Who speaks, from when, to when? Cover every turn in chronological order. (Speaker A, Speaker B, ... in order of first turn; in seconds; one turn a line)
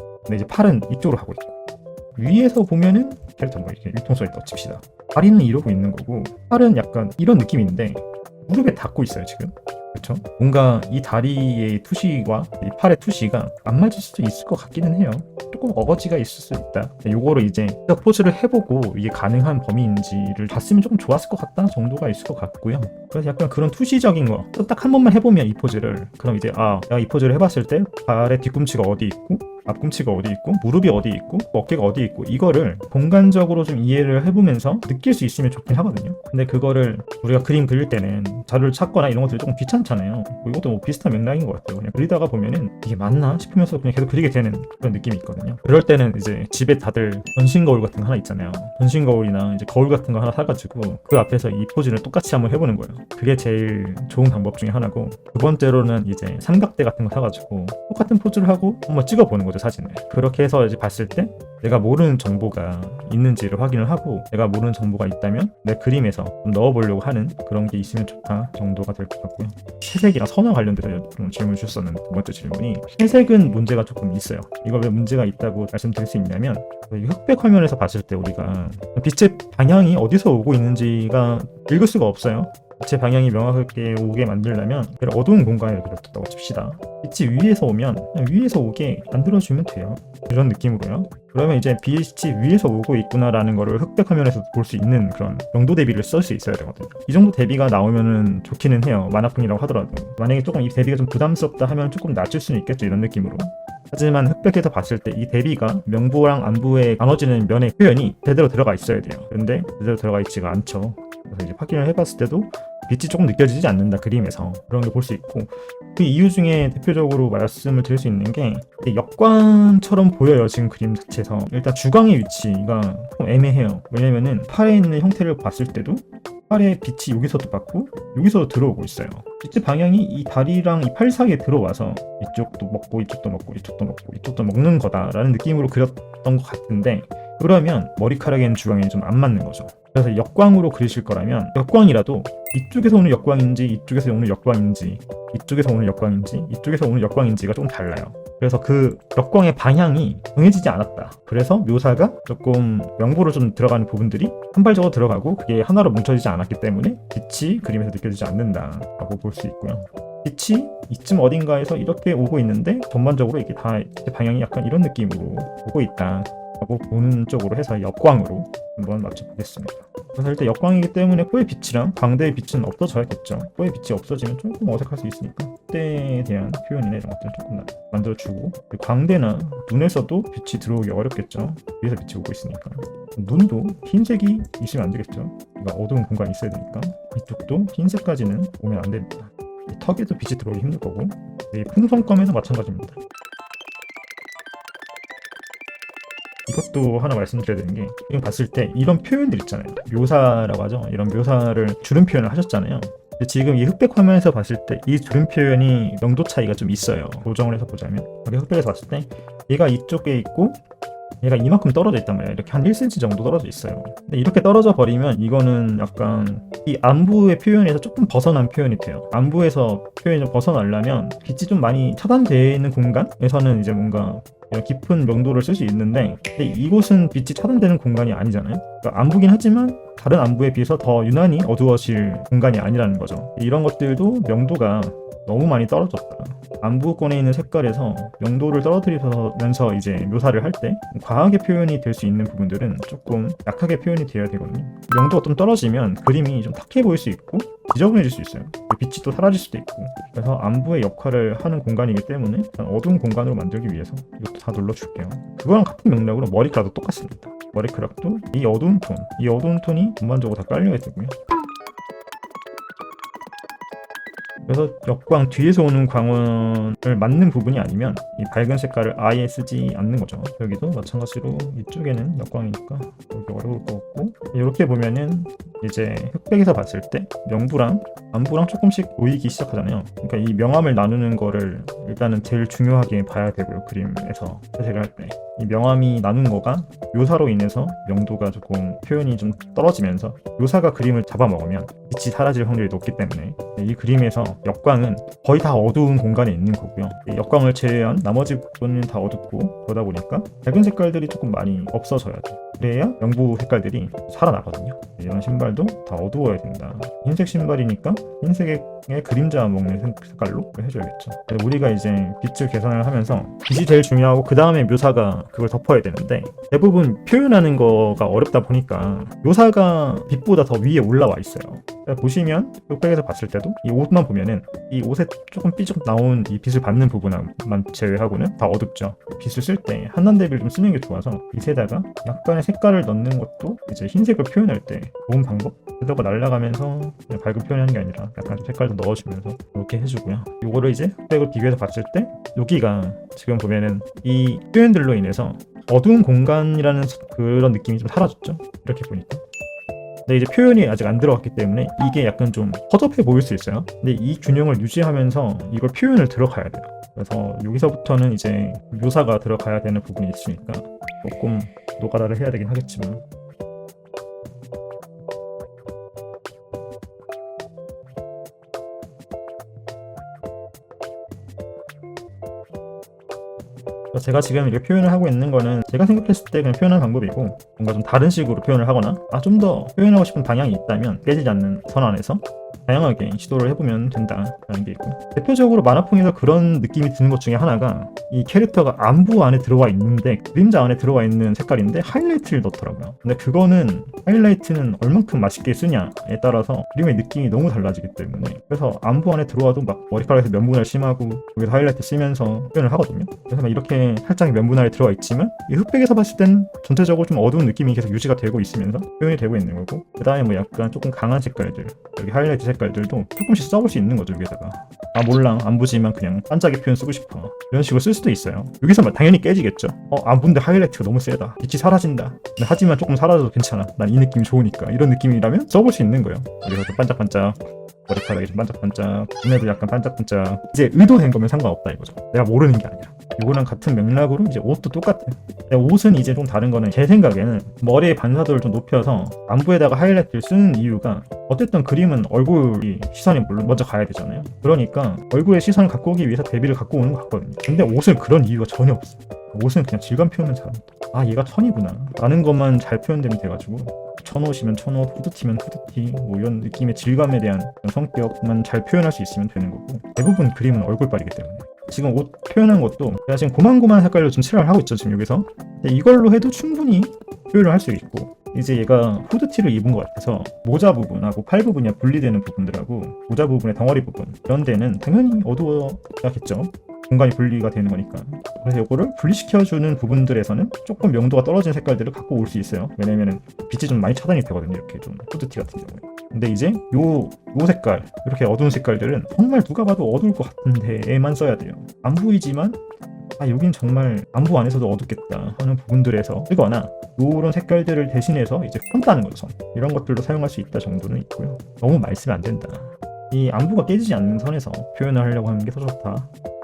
Speaker A: 0.2-1.5
Speaker A: 2.1-193.0
Speaker A: 196.5-210.6
Speaker A: 211.2-261.2
Speaker A: 264.5-349.2
Speaker A: 350.1-363.0
Speaker A: 373.9-492.6
Speaker A: 493.2-506.1